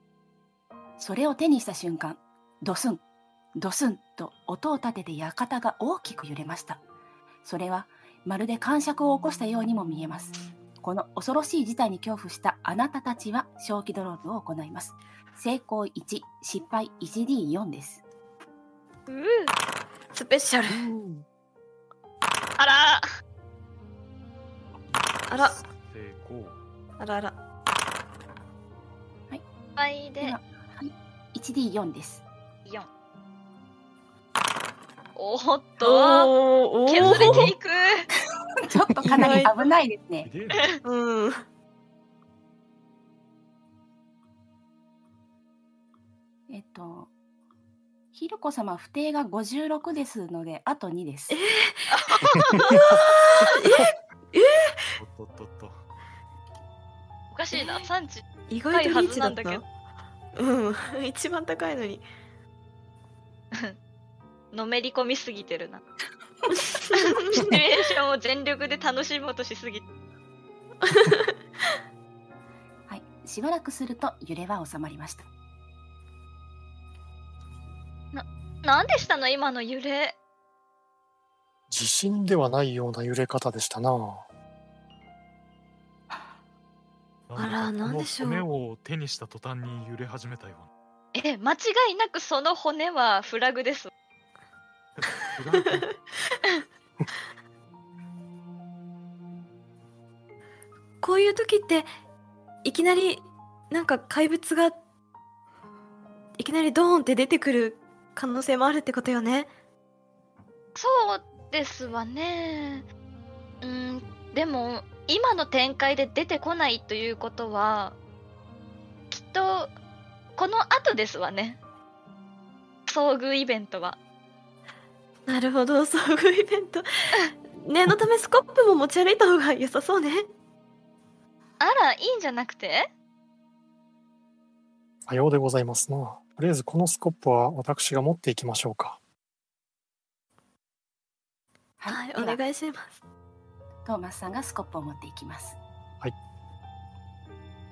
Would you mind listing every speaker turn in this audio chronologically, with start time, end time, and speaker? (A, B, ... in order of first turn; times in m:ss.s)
0:01.0-0:03.0 A
0:03.6-0:06.8 A
0:07.4-0:18.0 A
0:19.1-0:19.5 B
0:20.1-0:20.9 C
0:20.7-0:21.2 D
0:22.6-0:23.0 B
0:24.9-0:26.6 E
0:25.3-0:25.6 C
0:27.0-0:27.4 C
0:29.8-0:30.4 B
0:30.2-0:32.2 A
0:35.2-0:36.3 B
0:35.8-0:37.5 C
0:36.8-0:38.0 B
0:37.0-0:37.4 E
0:38.6-0:40.3 A
0:39.0-0:39.6 C
0:40.2-0:40.8 E
0:40.8-0:41.4 C
0:46.5-0:47.1 A
0:48.1-0:51.4 A
0:51.3-0:55.0 C
0:51.9-0:53.4 B
0:55.0-0:55.8 E
0:57.3-0:59.6 B
0:57.5-0:57.8 C
0:58.5-0:59.7 C
1:00.3-1:02.0 C
1:04.5-1:05.8 B
1:06.5-1:07.6 C
1:06.9-1:09.8 B
1:10.8-1:11.3 C
1:12.9-1:15.3 A
1:18.1-1:20.2 B
1:21.7-1:24.2 D
1:27.3-1:30.7 E
1:27.4-1:28.4 C
1:31.1-1:33.9 B
1:35.0-1:35.9 E
1:41.0-1:41.9 C
1:42.6-1:44.8 C
1:46.4-1:49.5 C
1:50.8-1:52.8 B
1:53.6-1:58.0 B
1:59.1-1:59.7 B
2:00.4-2:01.6 B
2:02.9-2:04.0 B
2:05.3-2:06.8 C
2:07.5-2:10.2 C
2:11.6-2:12.9 B
2:15.1-2:19.0 D
2:21.8-2:22.4 A
2:21.9-2:23.0 C
2:23.8-2:25.6 A